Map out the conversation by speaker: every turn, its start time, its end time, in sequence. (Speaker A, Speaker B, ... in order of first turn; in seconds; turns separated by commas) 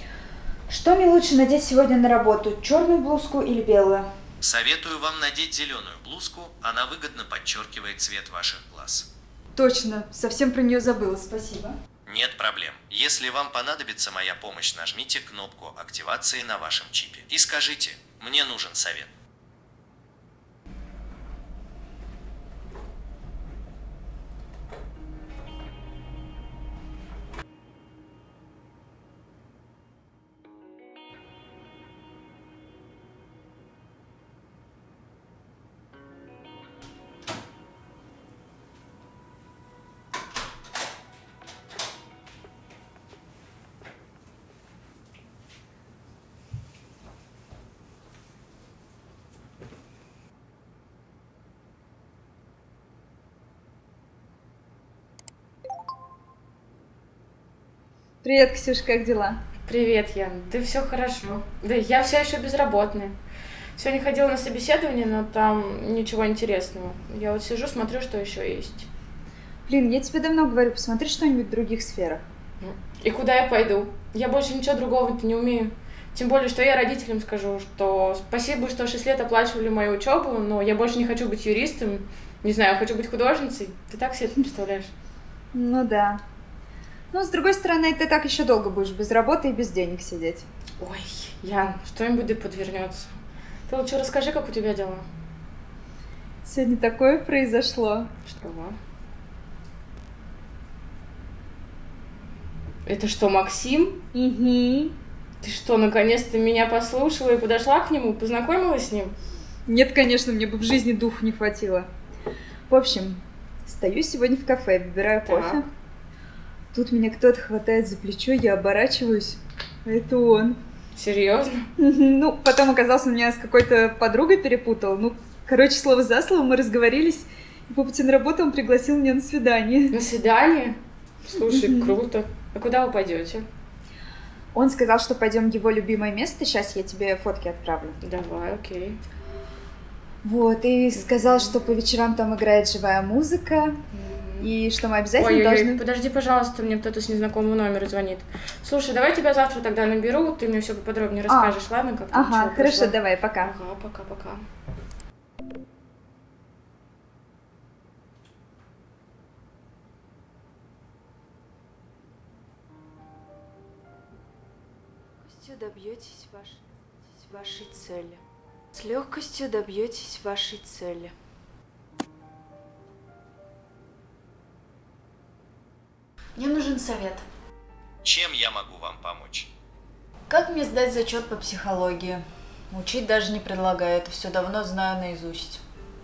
Speaker A: 0.7-4.1, Speaker B: 4.4-9.1, Speaker A: 9.6-11.8, Speaker B: 12.1-19.1, Speaker A: 58.2-59.4, Speaker C: 59.6-63.2, Speaker C: 63.8-68.9, Speaker A: 69.7-72.2, Speaker C: 72.6-84.9, Speaker A: 85.5-86.2, Speaker A: 87.1-90.5, Speaker C: 90.8-93.2, Speaker C: 93.7-95.1, Speaker A: 96.4-98.1, Speaker C: 98.3-98.8, Speaker C: 102.9-104.0, Speaker A: 104.1-105.0, Speaker C: 105.4-109.2, Speaker A: 109.7-111.9, Speaker A: 112.7-115.7, Speaker C: 115.2-115.6, Speaker A: 116.7-120.6, Speaker C: 121.0-121.6, Speaker A: 121.8-130.0, Speaker C: 129.9-133.5, Speaker A: 131.3-132.0, Speaker A: 134.5-138.0, Speaker C: 138.0-139.0, Speaker A: 140.2-143.8, Speaker C: 140.9-141.5, Speaker C: 143.9-144.5, Speaker A: 144.4-145.8, Speaker C: 145.2-154.4, Speaker A: 151.3-151.6, Speaker A: 152.1-153.5, Speaker A: 165.2-168.2, Speaker A: 168.8-171.1, Speaker A: 176.4-177.2, Speaker B: 178.0-179.5, Speaker A: 180.3-185.6